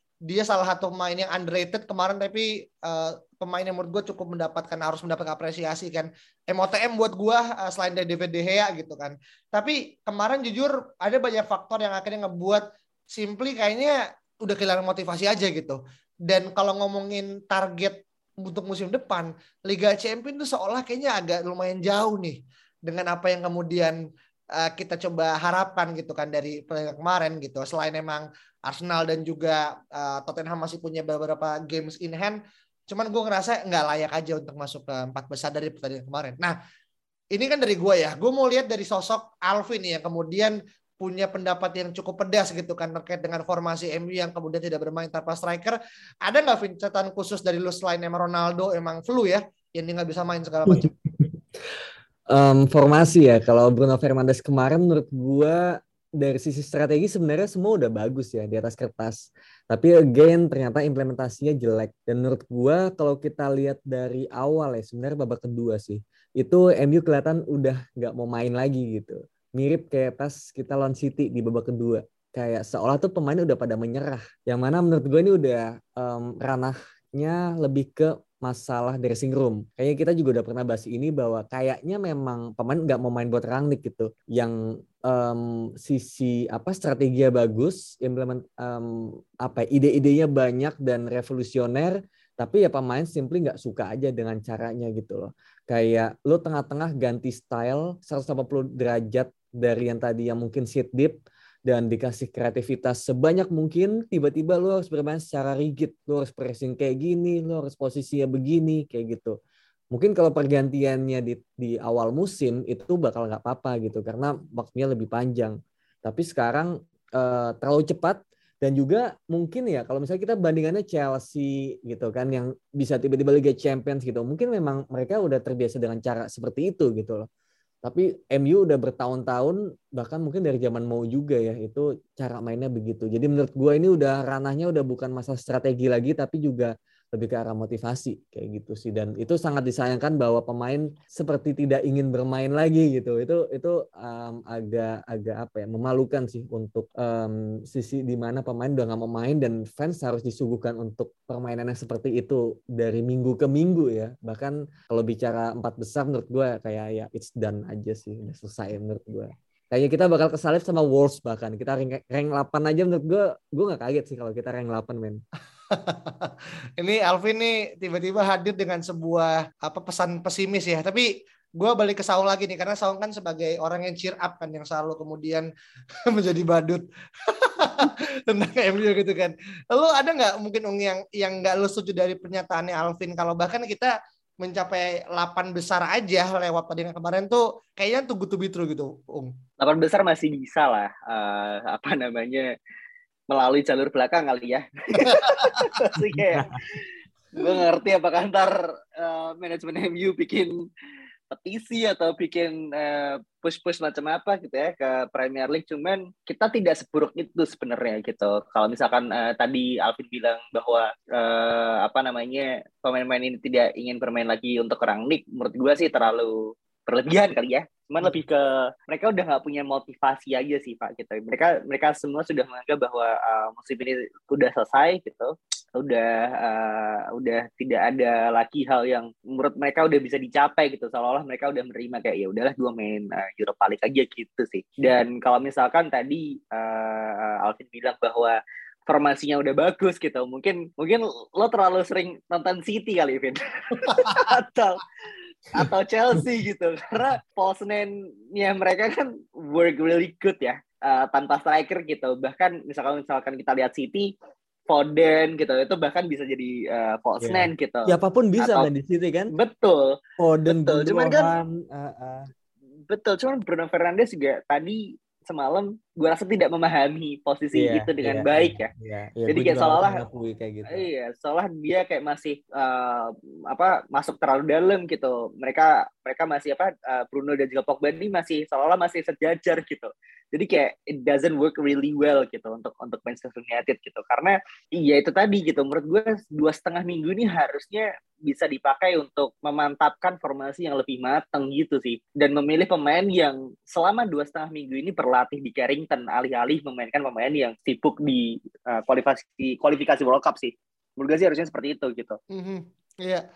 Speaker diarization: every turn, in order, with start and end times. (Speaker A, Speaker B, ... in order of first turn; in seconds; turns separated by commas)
Speaker A: 0.2-23.9, Speaker A: 24.5-36.6, Speaker A: 37.3-50.9, Speaker B: 50.7-51.3, Speaker B: 52.3-84.5, Speaker B: 85.1-109.4, Speaker B: 109.9-127.3, Speaker B: 127.8-165.2, Speaker A: 165.7-175.5, Speaker A: 176.1-189.3, Speaker C: 189.6-192.5, Speaker C: 193.3-196.5, Speaker A: 195.1-195.6, Speaker C: 197.3-200.5, Speaker C: 201.3-244.8, Speaker A: 243.9-244.2, Speaker C: 245.5-254.1, Speaker C: 254.7-258.7, Speaker B: 257.2-259.3, Speaker C: 259.3-260.0, Speaker B: 260.2-262.3, Speaker C: 260.5-261.3, Speaker C: 262.9-268.7, Speaker B: 267.5-270.9, Speaker C: 269.3-270.0, Speaker C: 270.7-302.2, Speaker A: 302.3-303.2